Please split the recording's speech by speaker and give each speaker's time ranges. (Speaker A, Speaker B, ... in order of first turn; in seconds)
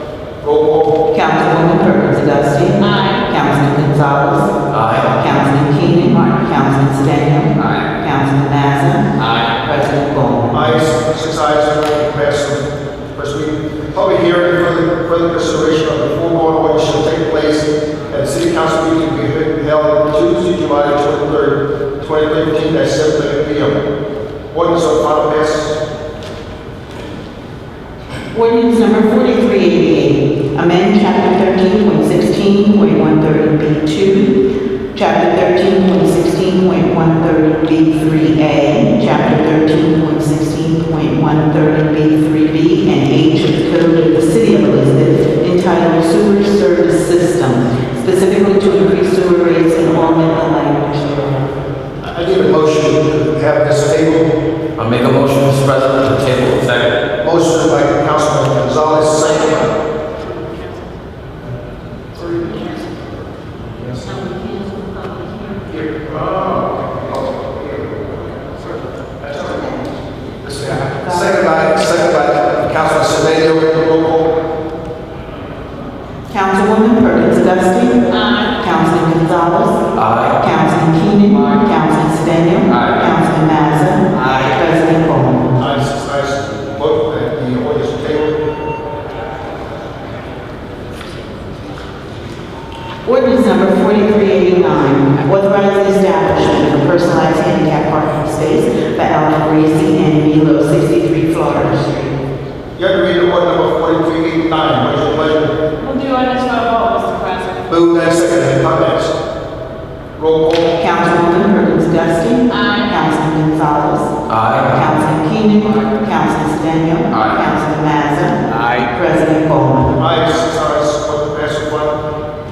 Speaker A: 0.4-1.0, 10.5-12.6, 13.2-23.7, 24.5-25.8, 52.0-54.4, 57.2-59.7, 65.9-66.6, 69.2-69.7, 70.4-74.3, 85.6-88.3, 102.8-105.5, 107.7-109.1, 110.2-110.7, 120.0-122.0
Speaker B: 1.1-10.5, 28.3-51.5, 71.1-71.3, 76.3-79.8, 80.4-85.6, 93.0-102.2, 110.8-120.0
Speaker C: 2.8-3.2, 78.1-78.5, 105.8-107.6, 112.5-113.0
Speaker D: 4.7-5.1, 9.2-9.5, 54.8-57.0, 80.0-80.4, 84.1-84.5, 114.3-114.7, 118.5-118.9